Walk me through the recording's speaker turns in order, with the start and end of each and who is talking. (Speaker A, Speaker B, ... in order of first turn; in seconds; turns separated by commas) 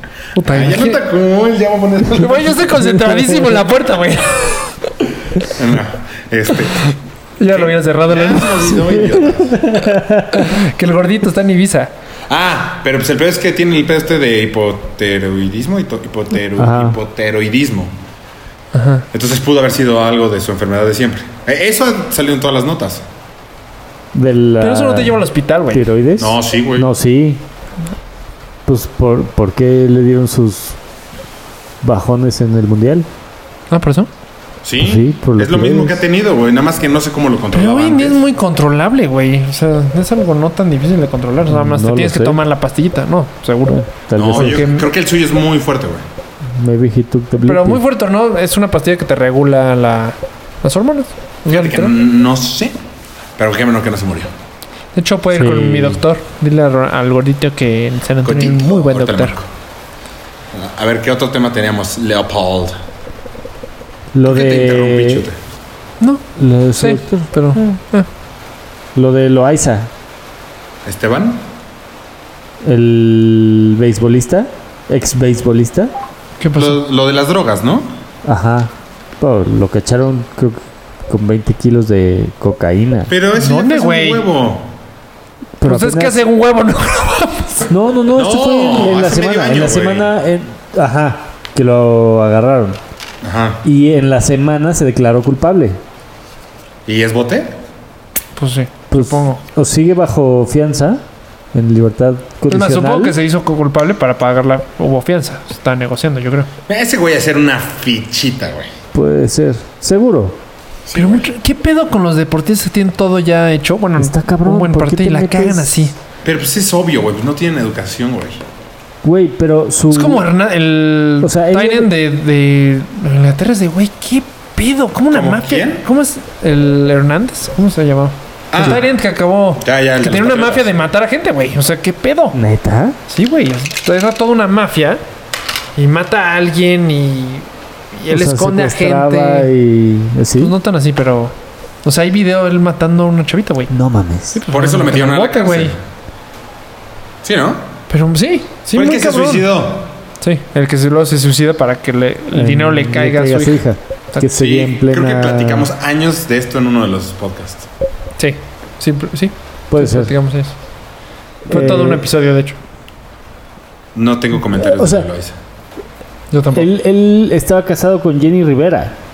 Speaker A: 0.3-1.0, Speaker B: 0.4-2.7, Speaker A: 2.1-4.7, Speaker C: 3.1-3.5, Speaker B: 5.4-7.0, Speaker A: 7.4-8.7, Speaker B: 7.5-9.8, Speaker C: 8.8-10.4, Speaker A: 10.3-11.9, Speaker B: 12.3-17.9, Speaker C: 16.6-17.0, Speaker A: 18.7-19.1, Speaker B: 19.1-23.0, Speaker C: 24.1-25.2, Speaker A: 24.6-25.9, Speaker C: 25.7-27.4, Speaker B: 26.2-26.9, Speaker C: 28.6-30.8, Speaker C: 31.8-33.1, Speaker A: 33.7-34.1, Speaker B: 34.6-38.2, Speaker C: 34.8-36.0, Speaker A: 37.5-44.9, Speaker C: 41.5-42.4, Speaker C: 43.7-44.6, Speaker B: 44.1-46.0, Speaker C: 46.5-47.8, Speaker A: 47.4-51.9, Speaker B: 51.5-52.7, Speaker B: 53.4-54.3, Speaker A: 54.9-59.4, Speaker C: 55.3-56.0, Speaker B: 58.2-59.5, Speaker B: 60.5-62.8, Speaker C: 64.1-65.3, Speaker B: 64.2-65.4, Speaker C: 66.4-67.3, Speaker A: 66.8-68.1, Speaker C: 68.9-69.9, Speaker B: 70.8-71.4, Speaker C: 72.6-75.9, Speaker A: 76.4-76.8, Speaker B: 76.5-77.9, Speaker C: 78.2-83.1, Speaker B: 83.1-84.7, Speaker A: 83.4-84.3, Speaker C: 85.6-86.2, Speaker A: 85.6-87.7, Speaker C: 87.7-92.8, Speaker B: 88.1-90.1, Speaker B: 93.2-93.6, Speaker C: 93.6-95.8, Speaker B: 96.8-97.6, Speaker A: 98.4-99.4, Speaker C: 98.9-101.0, Speaker C: 101.5-103.2, Speaker A: 102.5-106.5, Speaker B: 106.7-108.7, Speaker C: 108.9-110.4, Speaker B: 110.8-111.3, Speaker A: 110.9-115.9, Speaker C: 114.0-115.8, Speaker B: 116.2-118.4, Speaker C: 119.0-120.3, Speaker A: 119.9-132.4, Speaker C: 121.2-121.9, Speaker B: 125.1-125.8, Speaker B: 128.5-128.8, Speaker B: 129.6-130.8, Speaker C: 132.3-133.0, Speaker A: 133.1-135.0, Speaker A: 135.8-139.5, Speaker C: 138.1-140.5, Speaker A: 140.4-143.7, Speaker C: 143.7-144.4, Speaker A: 144.3-145.7, Speaker B: 144.5-145.8, Speaker B: 147.2-147.6, Speaker A: 147.9-149.5, Speaker B: 148.7-149.9, Speaker A: 150.2-153.6, Speaker C: 152.3-155.7, Speaker B: 154.3-157.7, Speaker A: 158.2-160.5, Speaker C: 159.7-160.1, Speaker C: 161.5-162.0, Speaker A: 161.5-162.6, Speaker B: 163.9-165.3, Speaker C: 164.6-165.1, Speaker A: 166.3-166.7, Speaker C: 166.5-168.9